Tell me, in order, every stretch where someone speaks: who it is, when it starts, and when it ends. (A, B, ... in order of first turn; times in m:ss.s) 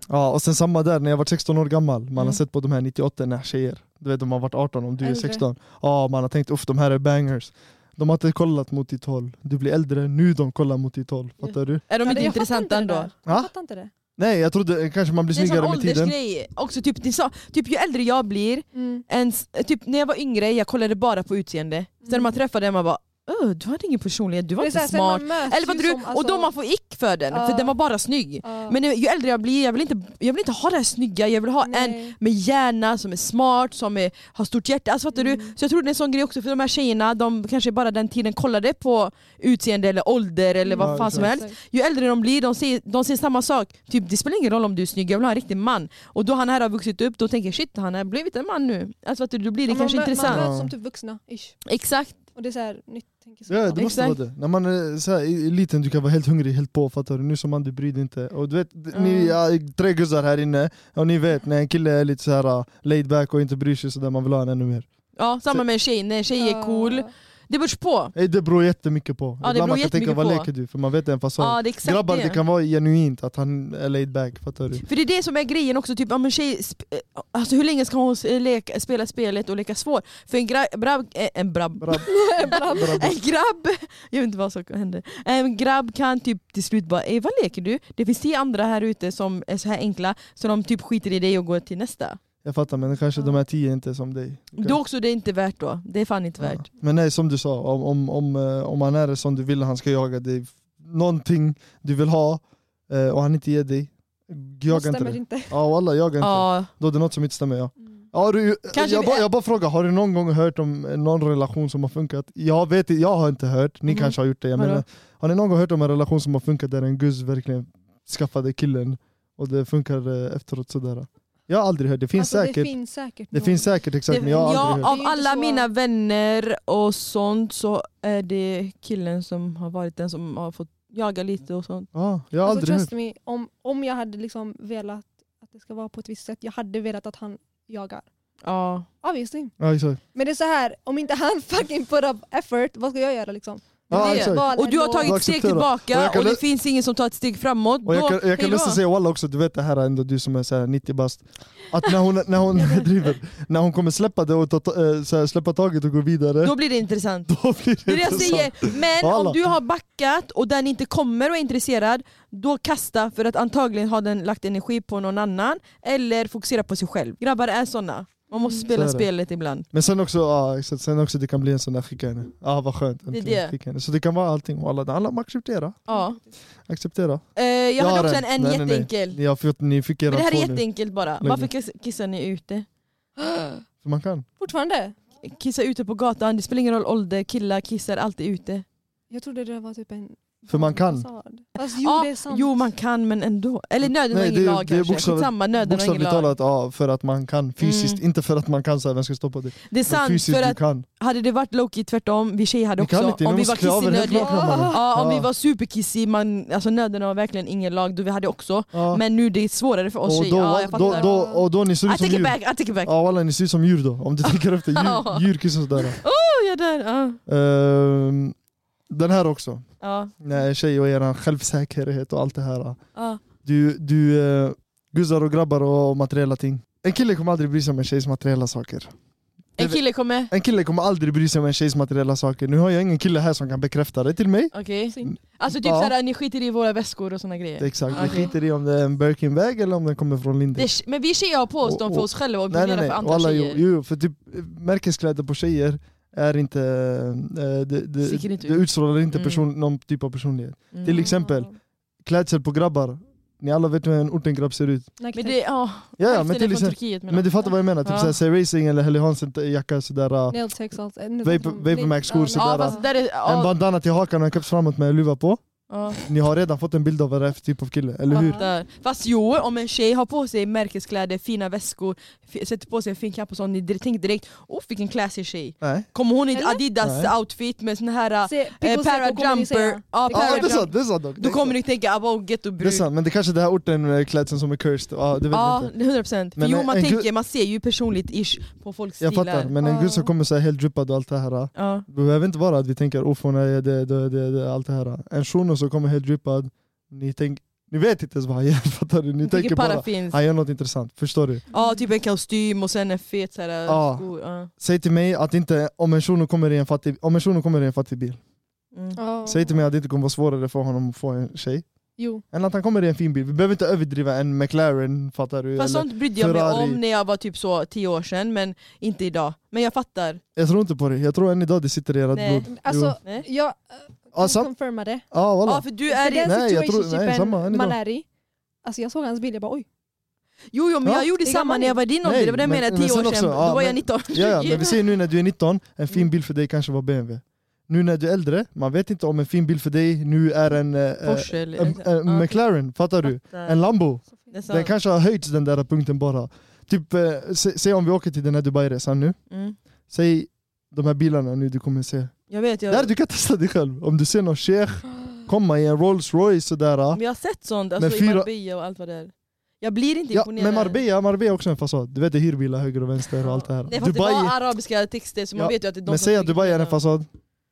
0:00.1-0:11.8 A
0:05.0-0:05.4 B
0:11.4-0:13.1 C
0:12.0-0:13.9 B
0:14.2-0:16.2 A
0:15.3-0:50.5 C
0:18.7-0:19.0 B
0:22.1-0:22.4 B
0:24.6-0:26.5 B
0:27.3-0:27.7 B
0:28.4-0:28.8 B
0:31.6-0:32.2 B
0:35.1-0:35.6 B
0:40.6-0:41.6 B
0:40.8-0:41.3 A
0:49.7-0:51.6 B
0:50.2-0:50.7 A
0:51.7-0:52.2 C
0:52.4-0:54.0 B
0:53.5-1:04.9 A
0:53.8-0:54.2 C
0:58.9-0:59.4 C
1:05.2-1:08.1 C
1:06.4-1:07.1 B
1:08.2-1:14.8 A
1:09.4-1:10.5 C
1:11.4-1:12.4 C
1:14.8-1:32.2 C
1:21.8-1:23.2 A
1:22.0-1:23.1 B
1:32.4-1:34.8 A
1:34.6-1:36.7 C
1:36.4-2:02.7 A
1:44.7-1:45.6 B
1:46.2-1:46.7 C
1:48.7-1:49.2 C
1:53.9-1:54.8 C
2:02.2-2:05.7 B
2:03.3-2:04.9 A
2:04.1-2:11.9 C
2:11.9-2:12.9 A
2:12.4-2:18.1 B
2:18.4-2:18.9 C
2:19.0-2:19.5 B
2:19.6-2:20.0 A
2:20.2-2:25.2 B
2:23.9-2:26.4 A
2:23.9-2:28.8 C
2:27.9-2:36.6 A
2:32.6-2:32.9 B
2:36.4-2:37.3 C
2:37.3-2:39.4 A
2:37.9-2:49.7 C
2:48.7-2:49.1 A
2:49.7-2:55.8 A
2:53.1-2:53.5 C
2:55.9-2:56.2 C
2:55.9-2:56.3 B
2:56.7-2:57.2 A
2:57.4-2:59.2 C
2:57.8-3:00.7 A
3:00.1-3:02.7 C
3:01.2-3:01.5 A
3:03.2-3:03.6 B
3:03.8-3:04.3 A
3:04.4-3:05.0 B
3:05.2-3:08.6 C
3:09.1-3:12.6 B
3:10.5-3:11.1 A
3:11.6-3:16.3 C
3:13.8-3:20.9 A
3:17.6-3:18.0 C
3:19.7-3:31.1 C
3:22.8-3:25.3 A
3:24.0-3:24.8 B
3:28.7-3:29.0 A
3:30.0-3:36.0 A
3:30.7-3:31.4 B
3:31.9-3:32.9 C
3:34.3-3:35.3 C
3:35.9-3:37.2 C
3:37.3-3:38.4 A
3:38.9-3:39.6 A
3:39.8-3:40.1 C
3:40.2-3:42.8 A
3:43.0-3:43.2 C
3:43.4-3:48.9 A
3:49.6-3:50.3 C
3:49.6-3:55.9 A
3:54.5-3:58.3 C
3:57.6-4:00.8 A
3:57.9-3:58.2 B
4:00.6-4:03.6 C
4:01.6-4:11.5 A
4:08.0-4:09.4 C
4:10.7-4:11.1 C
4:10.9-4:11.5 B
4:12.0-4:14.9 A
4:15.0-4:15.4 B
4:15.2-4:18.2 C
4:16.0-4:20.4 A
4:20.3-4:22.9 B
4:21.2-4:25.4 A
4:22.3-4:23.5 C
4:25.7-4:26.1 C
4:26.1-4:28.4 A
4:28.1-4:28.5 B
4:28.1-4:42.9 C
4:35.6-4:35.9 A
4:36.3-4:36.6 B
4:36.8-4:37.1 A
4:38.3-4:40.6 B
4:40.1-4:41.6 A
4:42.6-4:45.7 A
4:45.3-4:49.5 C
4:46.4-4:47.1 A
4:49.0-5:01.4 A
4:49.6-4:50.1 B
4:51.6-4:51.8 C
4:59.2-5:00.2 C
5:01.5-5:04.5 C
5:03.7-5:04.1 A
5:04.6-5:08.2 A
5:08.7-5:09.0 C
5:09.0-5:09.5 B
5:09.3-5:11.7 A
5:12.0-5:12.2 B
5:12.3-5:16.8 A
5:15.6-5:20.2 C
5:20.4-5:23.0 A
5:22.1-5:22.5 C
5:22.5-5:25.0 B
5:24.2-5:24.5 A
5:25.1-5:25.7 A
5:25.4-5:26.3 C
5:25.9-5:28.0 B
5:26.2-5:27.8 A
5:28.6-5:29.7 B
5:30.5-5:34.8 C
5:30.8-5:31.1 A
5:31.2-5:31.8 B
5:32.0-5:49.2 A
5:41.0-5:42.4 C
5:43.2-5:43.6 C
5:44.3-5:44.7 C
5:49.3-5:49.6 C
5:49.9-5:52.2 A
5:52.3-5:52.9 C
5:52.7-5:57.0 A
5:56.9-6:00.8 C
5:57.8-5:58.3 A
6:00.1-6:04.4 A
6:03.3-6:06.8 C
6:05.4-6:07.1 A